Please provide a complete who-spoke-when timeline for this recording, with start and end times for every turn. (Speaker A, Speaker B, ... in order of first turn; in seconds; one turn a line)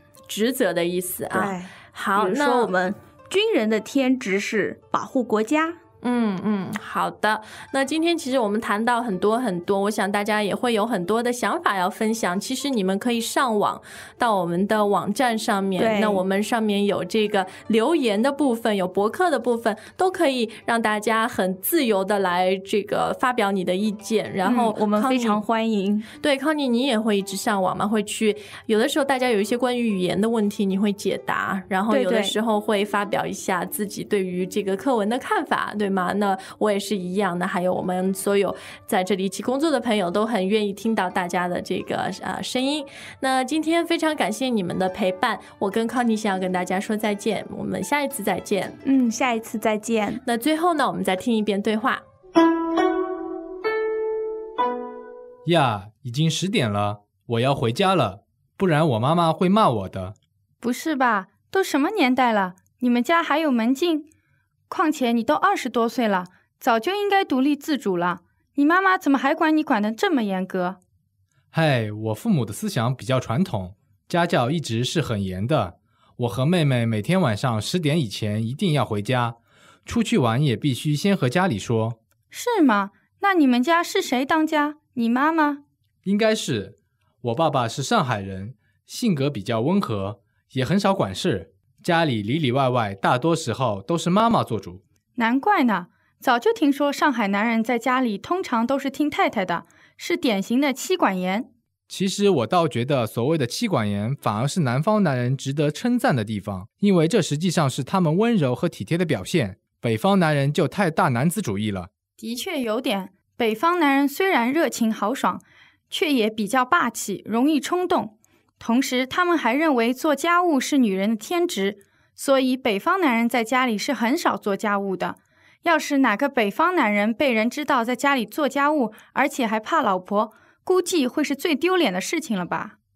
Speaker A: 0.3-2.7
Speaker B: 1.3-5.8
Speaker A: 6.0-25.4
Speaker B: 15.8-16.2
Speaker B: 24.4-26.1
Speaker A: 26.2-48.8
Speaker B: 31.9-32.4
Speaker B: 48.8-50.2
Speaker A: 50.2-52.0
Speaker C: 55.4-60.1
Speaker D: 60.6-64.0
Speaker D: 64.7-70.8
Speaker C: 71.5-82.0
Speaker D: 82.3-85.6
Speaker C: 86.0-94.8
Speaker D: 95.2-101.5
Speaker C: 101.9-111.9
Speaker D: 112.2-132.7